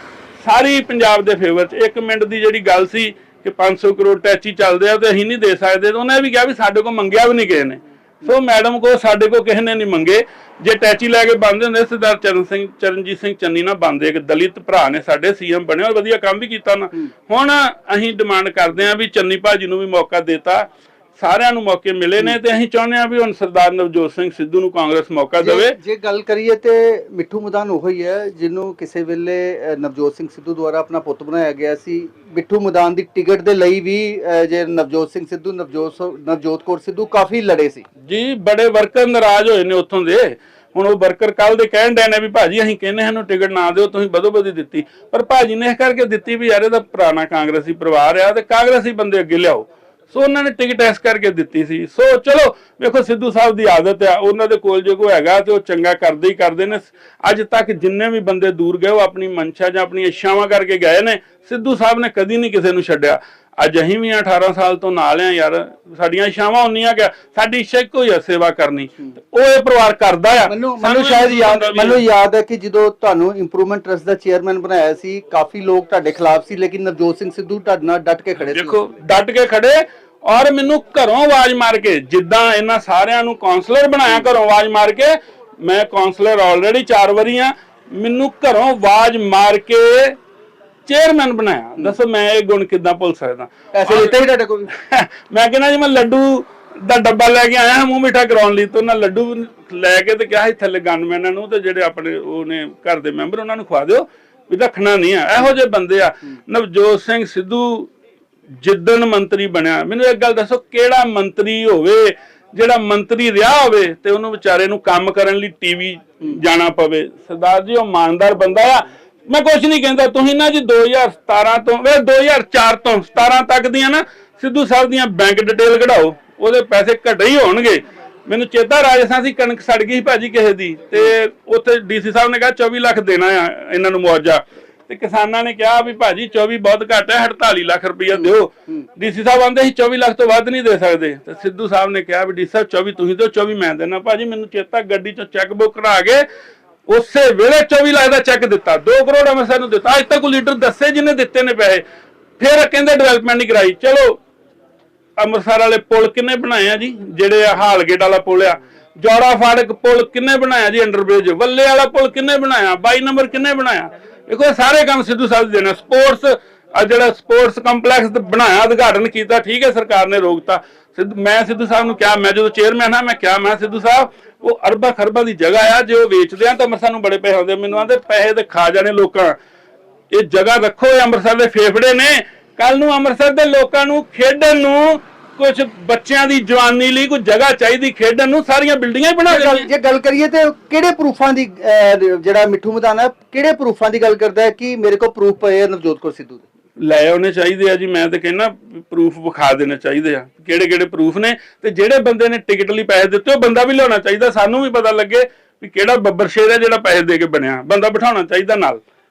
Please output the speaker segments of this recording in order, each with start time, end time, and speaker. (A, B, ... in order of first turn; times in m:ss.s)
0:00.4-0:25.8 A
0:25.4-0:37.8 B
0:38.0-1:12.0 A
1:10.4-1:18.8 B
1:18.5-1:30.2 A
1:30.9-1:34.2 A
1:33.7-1:34.7 B
1:34.7-1:47.9 A
1:48.6-2:26.2 A
2:26.9-2:31.8 A
2:32.4-2:34.2 A
2:35.2-2:59.4 A
3:00.1-3:09.7 A
3:09.3-3:16.4 B
3:16.8-3:28.8 A